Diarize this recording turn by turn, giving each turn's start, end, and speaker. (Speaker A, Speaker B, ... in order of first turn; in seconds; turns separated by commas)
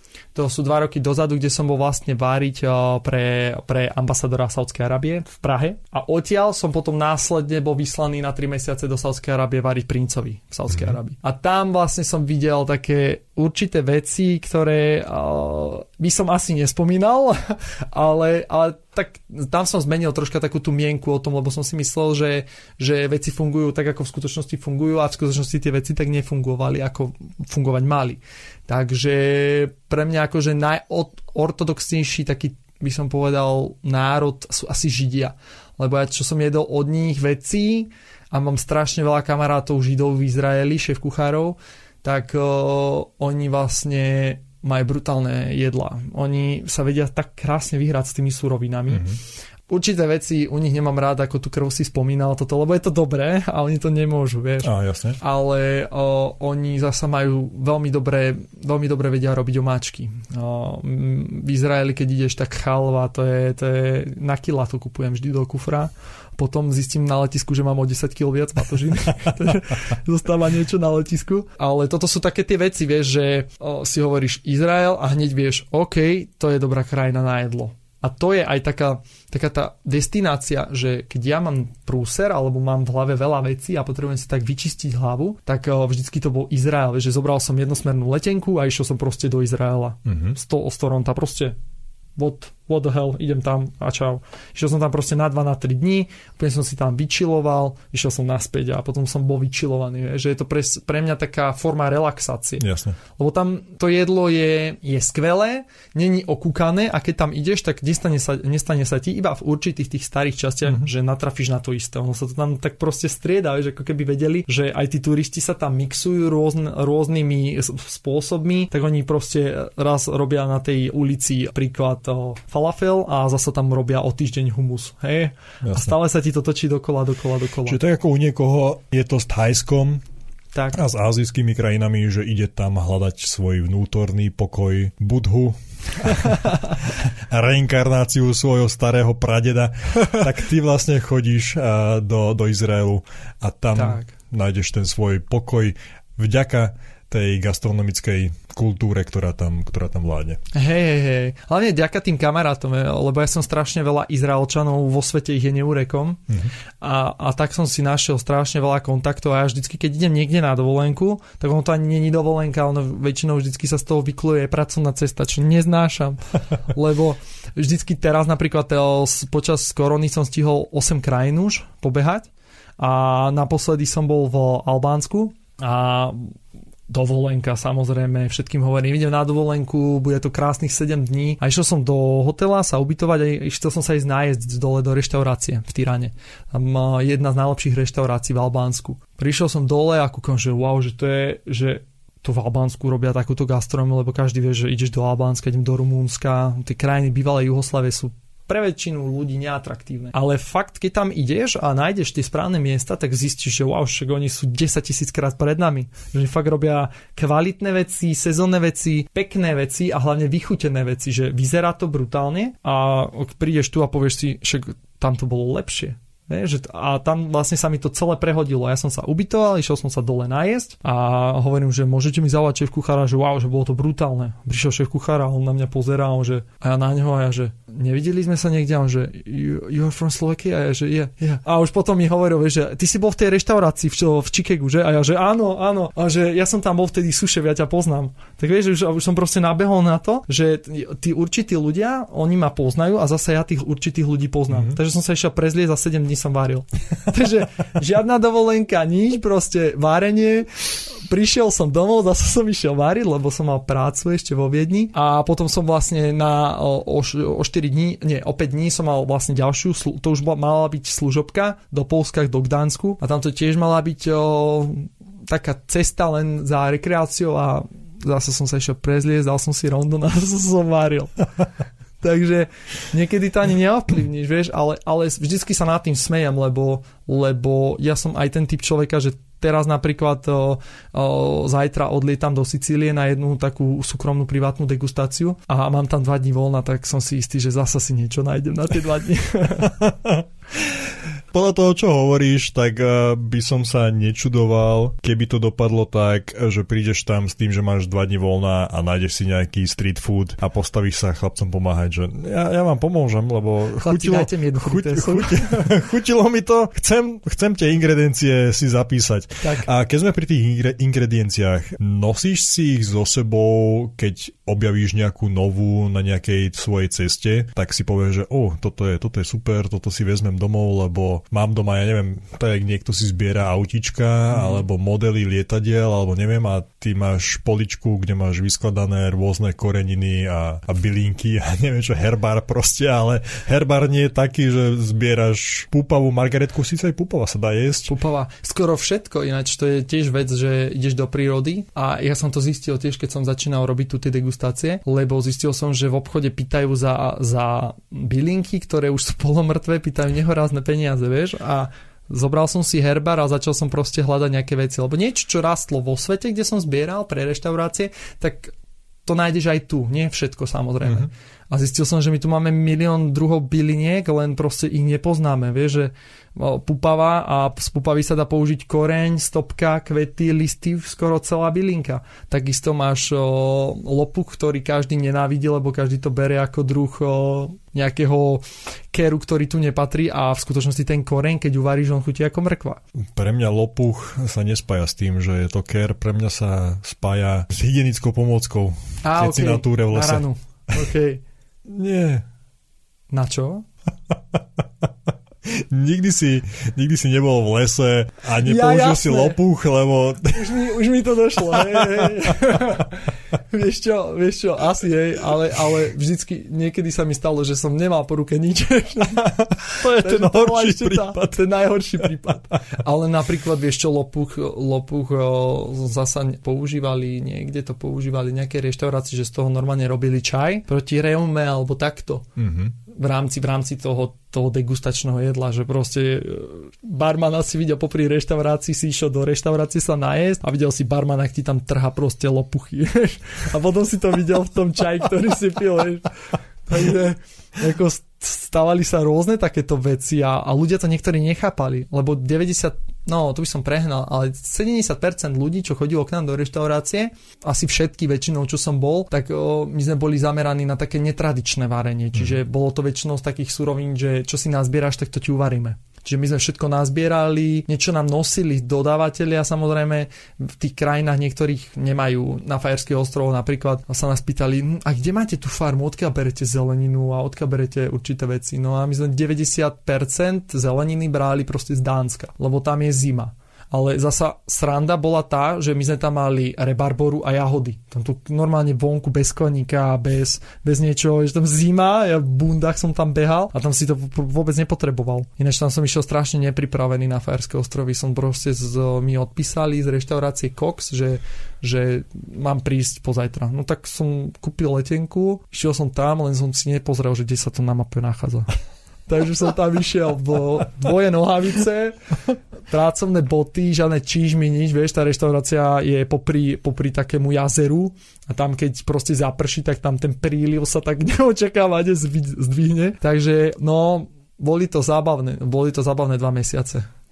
Speaker A: 0.3-49.0, Speaker B: 10.7-11.0, Speaker B: 48.9-49.2, Speaker A: 49.7-91.6, Speaker B: 54.6-55.2, Speaker B: 90.1-90.4, Speaker A: 92.2-127.8, Speaker B: 102.6-103.0, Speaker B: 125.6-126.0, Speaker B: 127.7-130.0, Speaker B: 130.7-150.4, Speaker A: 143.8-144.1, Speaker A: 150.5-156.2, Speaker A: 156.8-172.3, Speaker A: 172.8-176.4, Speaker A: 176.9-271.2, Speaker B: 244.5-244.8, Speaker A: 272.0-289.7, Speaker B: 289.5-337.9, Speaker A: 303.8-305.7, Speaker A: 309.4-309.7, Speaker A: 324.3-324.7, Speaker A: 337.9-358.5, Speaker A: 359.1-382.8, Speaker B: 360.8-361.1, Speaker B: 383.1-390.3, Speaker A: 389.0-391.2, Speaker B: 391.7-392.3, Speaker A: 393.1-393.7, Speaker B: 395.4-400.7, Speaker A: 398.4-399.4, Speaker A: 400.3-422.3, Speaker B: 401.5-402.4, Speaker B: 409.2-411.4, Speaker B: 422.4-422.8, Speaker A: 422.9-436.1, Speaker A: 436.7-498.5, Speaker B: 452.1-452.4, Speaker A: 499.1-502.0, Speaker A: 502.7-516.9